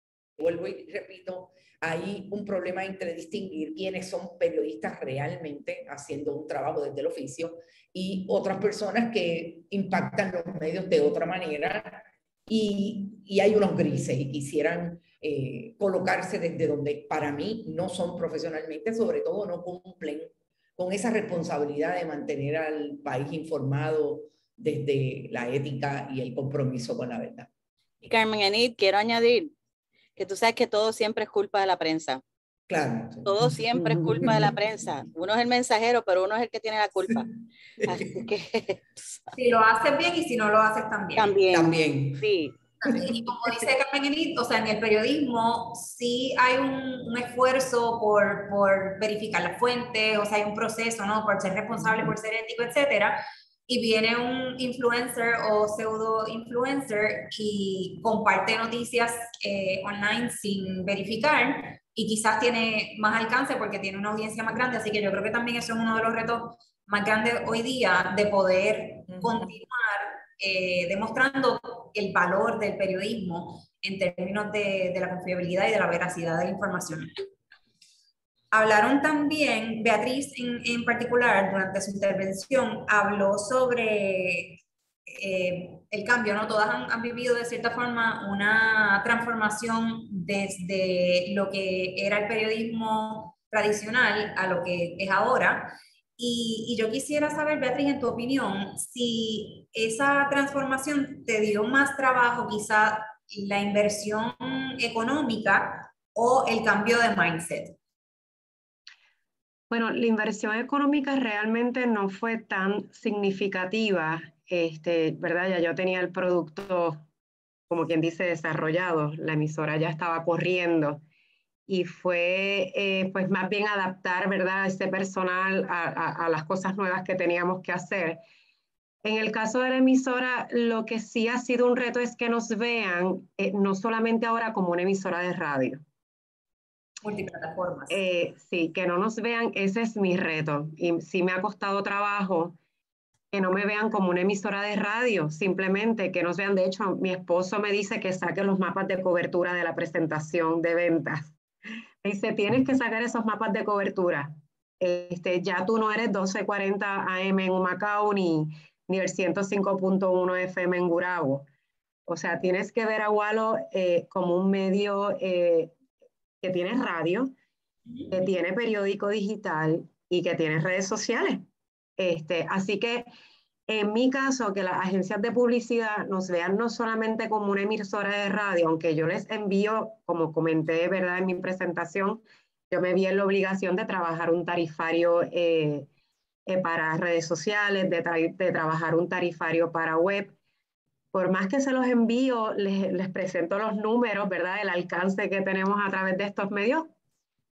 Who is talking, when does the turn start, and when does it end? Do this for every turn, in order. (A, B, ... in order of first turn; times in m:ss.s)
0:00.4-0:27.5 A
0:28.0-0:29.5 B
0:30.2-0:32.2 B
0:32.7-0:33.6 A
0:33.2-0:39.3 B
0:33.7-0:34.5 C
0:34.2-0:34.5 A
0:37.8-0:38.2 A
0:39.4-0:41.3 D
0:41.2-0:42.5 B
0:41.5-0:43.1 A
0:42.8-1:17.2 D
1:18.5-1:47.8 D
1:49.7-1:57.0 C
1:57.7-2:01.0 C
2:01.7-2:08.2 C
2:09.0-2:15.8 C
2:17.0-2:18.0 D
2:17.9-2:22.6 C
2:23.3-2:31.4 C
2:32.0-2:41.5 C
2:42.1-2:45.7 C
2:46.4-2:47.3 C
2:48.1-2:51.4 C
2:52.0-2:53.1 C
2:53.7-3:05.9 C
3:06.5-3:10.4 C
3:11.1-3:16.9 C